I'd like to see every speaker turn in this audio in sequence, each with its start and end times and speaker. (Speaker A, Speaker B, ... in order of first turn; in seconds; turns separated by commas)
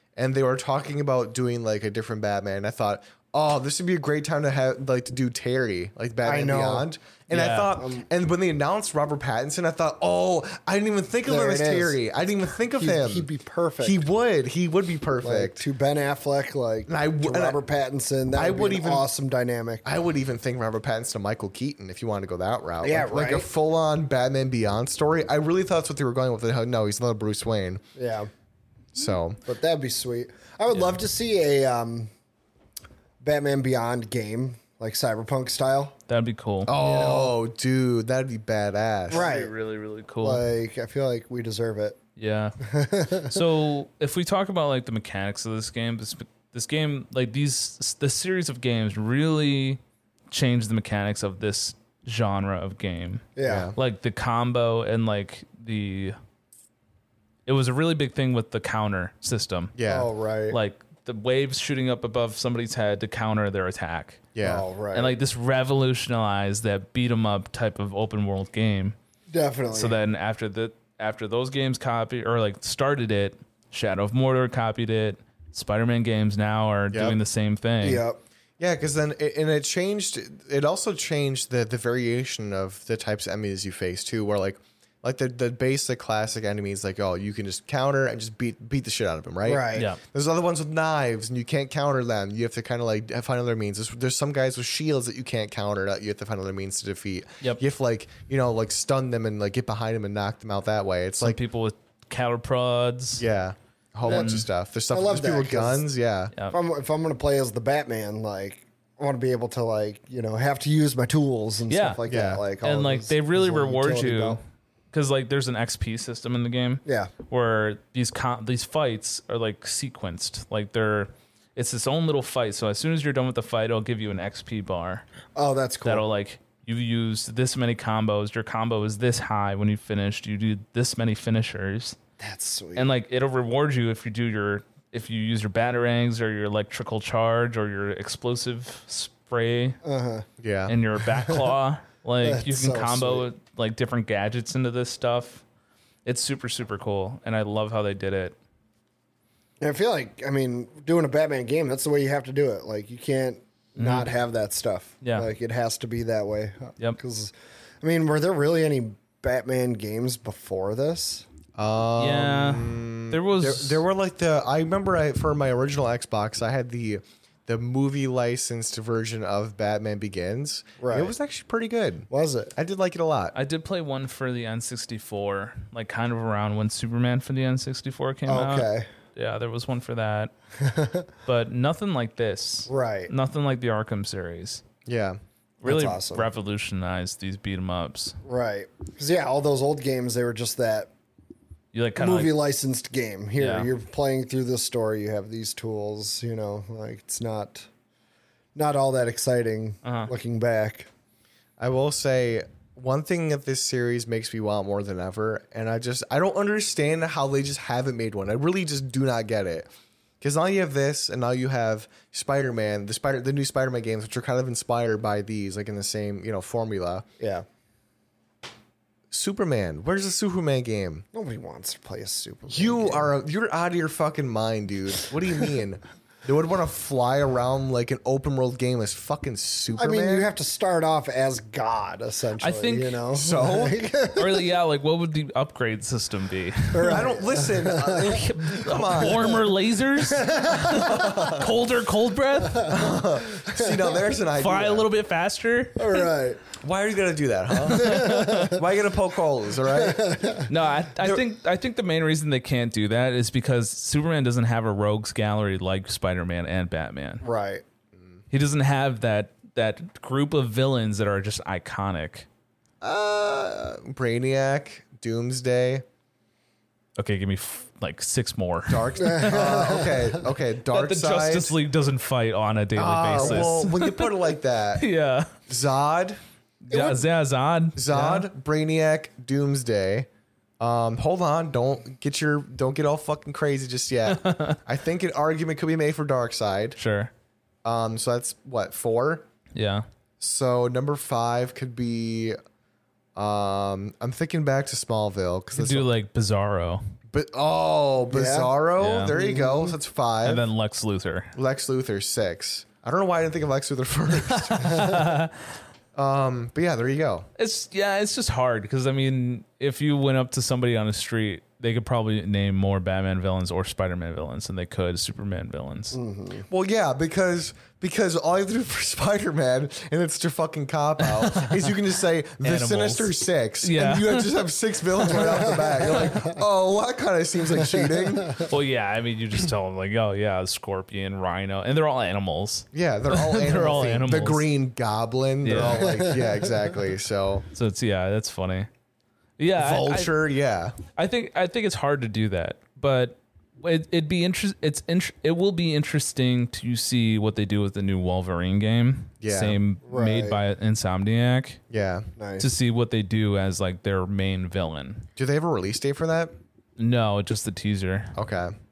Speaker A: 0.1-13.3, Speaker B: 6.2-6.9, Speaker C: 7.3-7.7, Speaker B: 7.8-8.0, Speaker B: 11.3-12.0, Speaker B: 12.6-14.1, Speaker A: 13.8-15.6, Speaker B: 15.2-19.8, Speaker A: 16.9-17.6, Speaker A: 18.3-19.1, Speaker A: 19.8-27.8, Speaker B: 22.8-23.5, Speaker B: 27.9-28.3, Speaker A: 28.9-29.4, Speaker B: 29.4-32.1, Speaker B: 33.2-36.0, Speaker C: 36.1-36.7, Speaker A: 36.7-39.3, Speaker B: 36.8-37.4, Speaker B: 39.1-39.5, Speaker C: 39.1-40.4, Speaker B: 40.2-42.0, Speaker C: 42.2-42.6, Speaker B: 42.6-43.4, Speaker C: 43.2-49.8, Speaker C: 50.3-56.2, Speaker B: 53.4-53.7, Speaker A: 53.4-53.8, Speaker C: 57.5-59.8, Speaker A: 59.8-60.1, Speaker B: 59.9-60.6, Speaker C: 60.5-64.2, Speaker A: 64.3-64.6, Speaker B: 64.4-65.2, Speaker C: 64.9-69.0, Speaker B: 69.3-70.0, Speaker C: 69.7-78.0, Speaker B: 77.8-78.2, Speaker A: 78.6-101.4, Speaker B: 89.4-89.9, Speaker C: 89.7-90.0, Speaker C: 101.2-103.2, Speaker A: 103.2-106.3, Speaker C: 104.0-104.5, Speaker B: 104.1-104.3, Speaker B: 104.9-105.9, Speaker B: 106.5-114.4, Speaker C: 111.7-112.0, Speaker A: 112.1-112.4, Speaker C: 112.6-114.4, Speaker C: 114.9-125.0, Speaker B: 116.8-117.1, Speaker B: 125.3-126.0, Speaker C: 125.8-132.0, Speaker B: 132.2-132.9, Speaker C: 132.7-139.8, Speaker B: 139.8-140.2, Speaker A: 140.4-140.7, Speaker C: 140.7-145.4, Speaker B: 142.2-143.3, Speaker C: 146.0-148.3, Speaker B: 149.6-161.2, Speaker C: 153.8-154.1, Speaker C: 155.0-155.3, Speaker A: 161.6-173.3, Speaker C: 162.0-163.8, Speaker B: 170.8-171.1, Speaker B: 172.1-172.5, Speaker C: 173.3-180.3, Speaker B: 178.2-178.9, Speaker B: 180.6-181.1, Speaker C: 181.2-184.6, Speaker B: 182.7-183.1, Speaker A: 184.8-185.2, Speaker C: 185.6-188.2, Speaker B: 185.6-186.3, Speaker B: 188.2-190.9, Speaker C: 191.7-192.4, Speaker B: 192.0-197.7, Speaker C: 193.4-193.7, Speaker B: 198.5-200.9, Speaker C: 199.8-200.1, Speaker A: 201.6-217.0, Speaker B: 217.2-217.4, Speaker A: 219.1-221.0, Speaker B: 221.1-223.1, Speaker A: 222.5-230.3, Speaker B: 229.7-234.5, Speaker C: 232.4-233.0, Speaker A: 233.1-233.8, Speaker C: 234.1-237.0, Speaker B: 236.7-238.2, Speaker A: 236.9-239.4, Speaker C: 238.0-242.8, Speaker B: 239.0-239.3, Speaker B: 240.0-241.3, Speaker A: 240.6-241.5, Speaker A: 242.6-244.9, Speaker B: 243.3-243.9, Speaker C: 244.3-246.1, Speaker B: 245.8-246.4, Speaker A: 246.6-250.4, Speaker C: 247.7-248.6, Speaker B: 247.7-248.6, Speaker B: 249.7-250.5, Speaker C: 250.5-257.2, Speaker B: 257.2-257.6, Speaker C: 258.3-262.3, Speaker B: 262.8-263.5, Speaker A: 262.8-265.8, Speaker C: 267.0-269.6, Speaker A: 268.7-271.5, Speaker B: 269.0-270.2, Speaker C: 270.7-274.1, Speaker A: 272.8-274.9, Speaker B: 273.2-273.5, Speaker C: 274.8-275.3, Speaker A: 275.5-276.2, Speaker C: 276.7-278.2, Speaker B: 276.7-277.0, Speaker A: 277.8-280.1, Speaker A: 280.6-286.8, Speaker C: 284.1-284.6, Speaker C: 286.8-287.1, Speaker A: 287.6-289.3, Speaker C: 289.5-289.9, Speaker A: 290.2-292.4, Speaker A: 293.1-295.9, Speaker C: 295.5-296.8, Speaker A: 297.1-300.4, Speaker B: 298.1-298.5, Speaker C: 298.8-299.1, Speaker B: 299.1-299.7, Speaker C: 300.2-301.3, Speaker A: 301.4-305.1, Speaker C: 304.2-305.5, Speaker A: 305.9-307.3, Speaker C: 307.4-316.0, Speaker B: 315.9-316.5, Speaker A: 316.5-328.5, Speaker C: 321.2-321.6, Speaker C: 322.4-324.4, Speaker B: 325.1-326.4, Speaker B: 327.6-328.5, Speaker C: 328.4-334.4, Speaker A: 332.7-337.5, Speaker C: 335.4-335.9, Speaker B: 335.5-336.5, Speaker C: 337.5-338.7, Speaker C: 339.4-340.1, Speaker A: 339.6-340.7, Speaker C: 340.9-351.6, Speaker A: 349.2-349.6, Speaker B: 349.8-350.4, Speaker A: 351.7-352.1, Speaker B: 352.2-352.5, Speaker C: 352.4-355.1, Speaker A: 355.2-356.3, Speaker C: 356.8-358.1, Speaker A: 358.1-358.5